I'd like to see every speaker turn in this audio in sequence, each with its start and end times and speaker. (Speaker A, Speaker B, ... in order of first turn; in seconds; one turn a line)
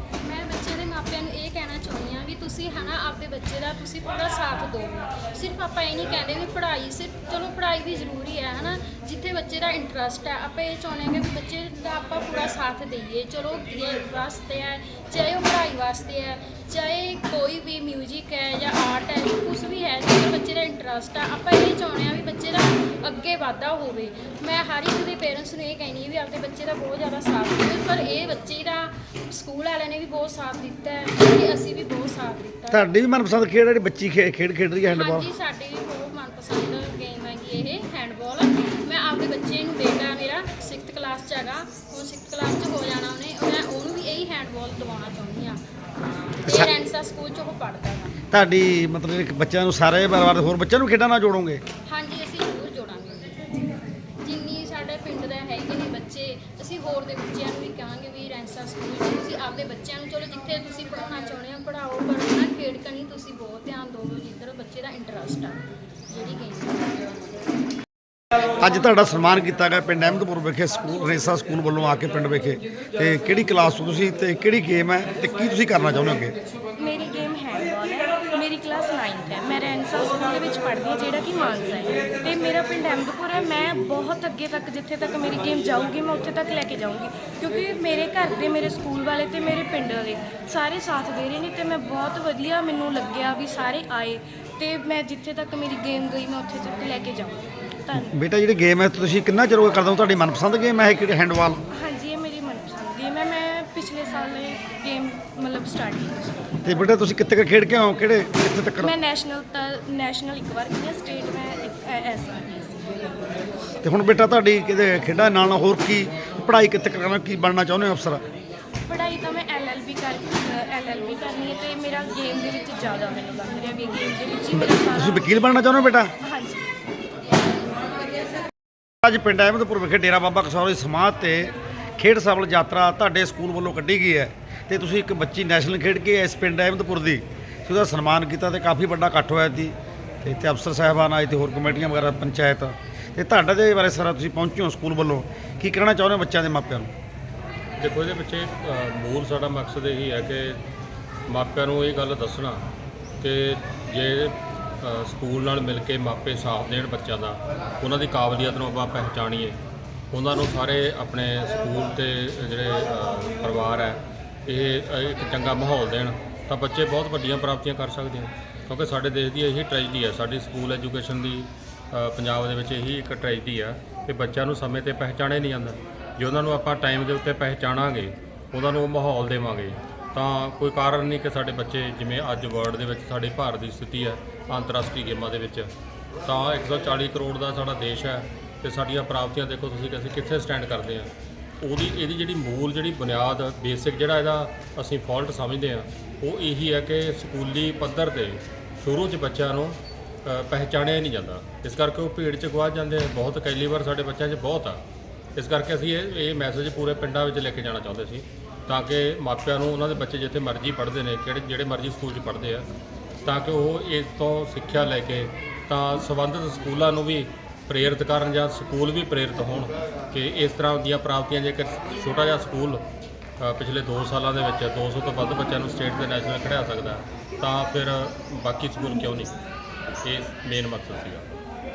Speaker A: 0.2-32.9
Speaker B: 32.7-35.3
Speaker A: 34.9-45.6
Speaker A: 46.5-48.1
Speaker B: 48.3-51.6
Speaker A: 51.9-53.6
Speaker A: 54.2-67.0
Speaker B: 68.4-76.3
Speaker C: 76.8-98.2
Speaker B: 97.9-101.6
Speaker C: 101.7-106.9
Speaker B: 106.6-108.9
Speaker C: 108.8-113.0
Speaker B: 113.8-118.2
Speaker C: 118.8-125.3
Speaker B: 124.5-126.1
Speaker C: 126.2-126.7
Speaker B: 129.0-146.9
Speaker D: 147.8-150.6
Speaker D: 151.3-152.6
Speaker D: 153.2-159.6
Speaker D: 160.1-185.7
Speaker D: 186.2-204.8
Speaker D: 205.3-212.7
Speaker D: 213.2-222.8
Speaker D: 223.4-229.3
Speaker D: 230.0-231.2